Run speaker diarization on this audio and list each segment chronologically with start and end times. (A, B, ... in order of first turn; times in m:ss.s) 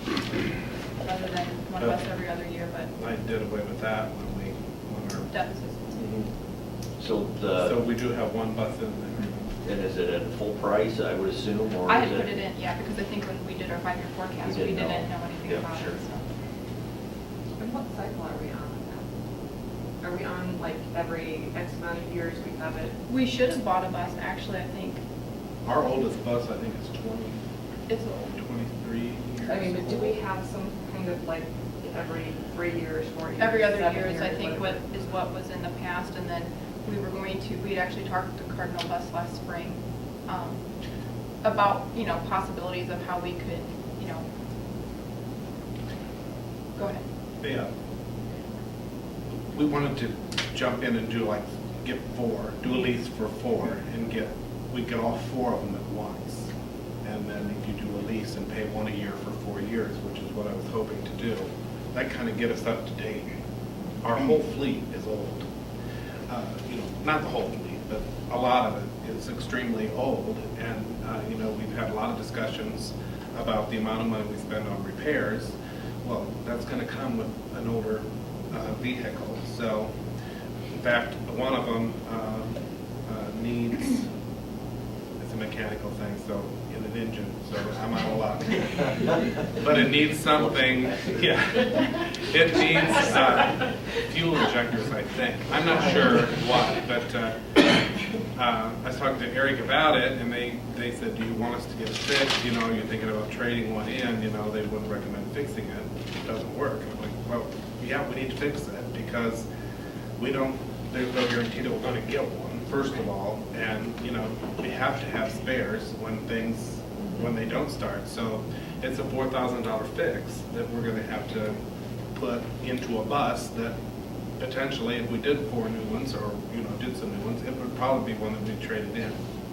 0:01.0-0:02.9 A
0:02.9-0:05.3 B
0:05.3-0:06.1 A
0:05.9-0:06.3 B
0:07.0-0:07.8 C
0:07.6-0:09.5 B
0:09.2-0:09.4 A
0:09.6-0:12.3 C
0:11.8-0:16.2 A
0:14.4-0:16.0 C
0:17.6-0:19.1 D
0:20.0-0:22.9 D
0:23.1-0:25.0 A
0:25.6-0:27.4 B
0:27.9-0:28.4 A
0:28.3-0:30.2 B
0:29.4-0:34.8 D
0:33.4-0:40.6 A
0:41.4-0:44.3 A
0:46.7-0:47.0 A
0:47.4-0:47.7 B
0:49.5-0:56.5 B
0:57.0-1:03.3 B
1:04.0-1:05.5 B
1:06.3-1:19.9 B
1:20.7-1:24.0 B
1:25.2-1:37.6 B
1:30.3-1:31.9 C
1:38.3-1:49.5 B
1:50.2-2:01.6 B
2:02.1-2:03.8 B
2:04.4-2:09.2 B